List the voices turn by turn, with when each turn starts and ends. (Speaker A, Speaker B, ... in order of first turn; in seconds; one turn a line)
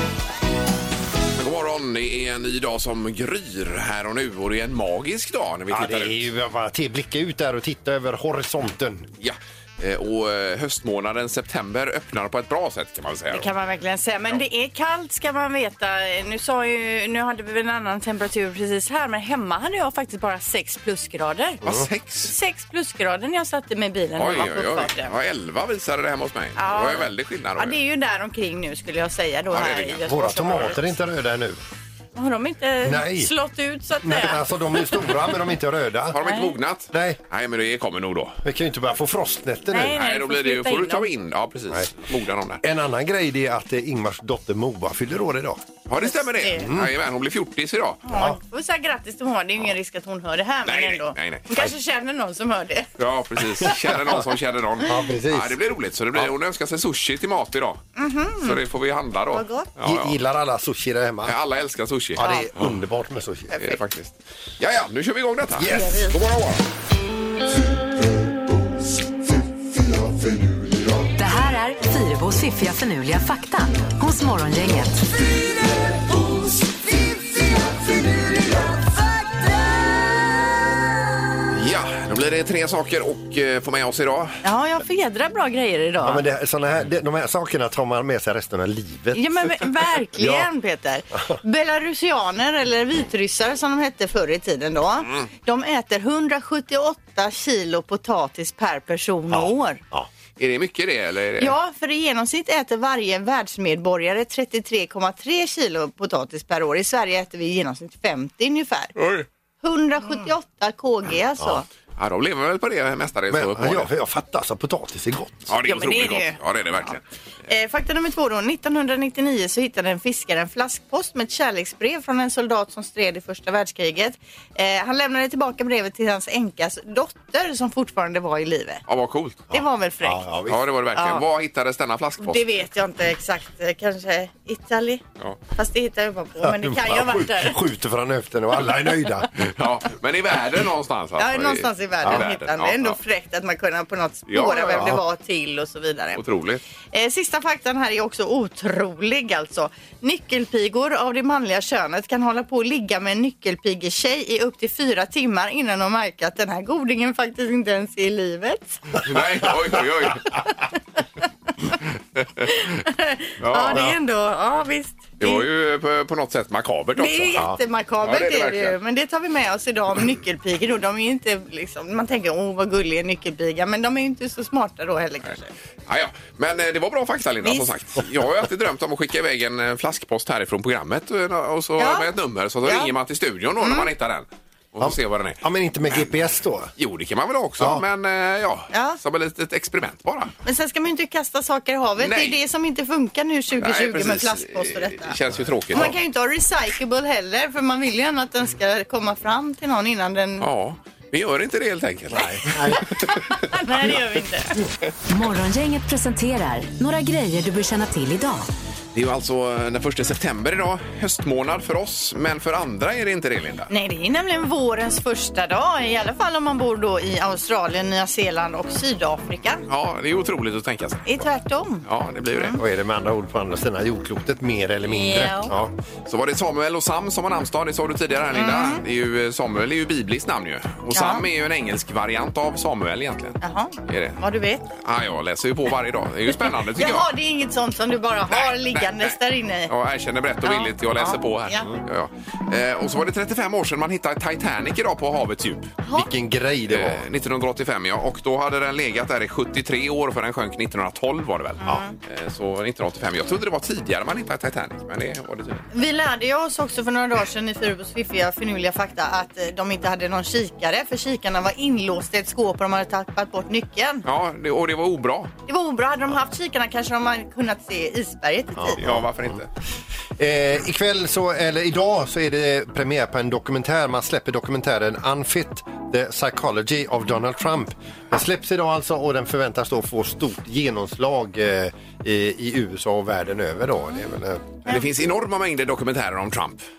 Speaker A: 1.4-6.2
Speaker B: 5.7-9.1
Speaker A: 9.2-13.5
Speaker C: 13.3-21.6
Speaker A: 21.6-22.3
Speaker C: 22.2-25.1
Speaker A: 24.2-27.8
Speaker C: 26.6-30.8
Speaker A: 29.5-30.8
Speaker B: 30.1-31.6
Speaker C: 32.1-34.4
Speaker B: 32.8-33.3
Speaker B: 34.0-36.2
Speaker A: 36.1-38.4
Speaker C: 36.2-36.5
Speaker B: 36.9-37.2
Speaker B: 38.4-40.0
Speaker C: 39.7-41.1
Speaker A: 39.9-42.6
Speaker B: 42.6-45.6
Speaker A: 45.9-48.0
Speaker C: 46.0-46.7
Speaker B: 46.6-46.9
Speaker C: 48.0-52.9
Speaker A: 50.6-51.6
Speaker A: 53.0-57.9
Speaker B: 53.7-54.1
Speaker B: 54.8-55.6
Speaker C: 58.0-58.6
Speaker A: 58.4-60.2
Speaker C: 59.3-59.7
Speaker B: 59.8-61.4
Speaker A: 61.2-62.8
Speaker B: 62.1-63.6
Speaker C: 62.2-62.5
Speaker C: 63.5-63.8
Speaker A: 63.6-66.6
Speaker B: 65.6-66.1
Speaker C: 65.7-66.2
Speaker D: 71.2-75.0
Speaker A: 81.5-84.4
Speaker C: 84.4-86.2
Speaker B: 86.0-89.2
Speaker C: 89.1-99.8
Speaker B: 90.2-90.5
Speaker B: 99.3-100.1
Speaker A: 100.4-101.5
Speaker C: 101.4-108.9
Speaker A: 109.0-109.3
Speaker C: 109.6-111.7
Speaker A: 112.0-113.9
Speaker B: 113.3-115.5
Speaker A: 115.5-117.0
Speaker C: 115.6-116.4
Speaker C: 117.5-128.8
Speaker A: 128.9-129.5
Speaker C: 129.5-130.2
Speaker B: 129.6-130.6
Speaker A: 130.5-132.4
Speaker C: 130.9-131.2
Speaker C: 132.2-135.0
Speaker C: 135.6-137.6
Speaker B: 136.4-139.3
Speaker A: 139.4-143.0
Speaker C: 141.2-146.2
Speaker A: 144.3-145.0
Speaker A: 146.2-146.6
Speaker C: 146.9-158.8
Speaker A: 159.0-160.4
Speaker C: 162.5-165.4
Speaker A: 163.4-163.9
Speaker A: 165.2-167.4
Speaker C: 167.0-175.5
Speaker A: 168.0-168.8
Speaker A: 175.9-186.1
Speaker C: 177.4-177.7
Speaker C: 181.8-182.1
Speaker C: 182.7-182.9
Speaker C: 183.6-183.9
Speaker B: 184.8-186.7
Speaker A: 186.8-190.3
Speaker B: 187.6-187.8
Speaker C: 188.7-189.0
Speaker C: 190.4-195.2
Speaker A: 192.0-192.4
Speaker A: 193.6-195.9
Speaker C: 195.7-200.5
Speaker A: 200.4-203.9
Speaker B: 202.1-202.8
Speaker C: 203.5-204.5
Speaker D: 205.1-208.5
Speaker A: 208.9-213.7
Speaker C: 213.7-219.7
Speaker A: 219.7-221.1
Speaker C: 221.1-222.6
Speaker A: 221.8-222.6
Speaker B: 222.6-225.7
Speaker C: 224.8-225.5
Speaker A: 226.1-234.2
Speaker C: 228.3-228.8
Speaker C: 230.9-231.2
Speaker C: 233.4-234.7
Speaker A: 234.8-237.1
Speaker C: 236.3-239.7
Speaker A: 238.3-239.2
Speaker A: 239.7-245.8
Speaker C: 240.4-241.7
Speaker B: 245.9-247.1
Speaker A: 246.7-255.7
Speaker C: 251.6-251.9
Speaker C: 255.7-264.0
Speaker A: 264.1-265.3
Speaker C: 265.5-268.8
Speaker B: 268.6-269.4
Speaker A: 268.8-269.5
Speaker B: 270.2-284.6
Speaker A: 284.7-286.6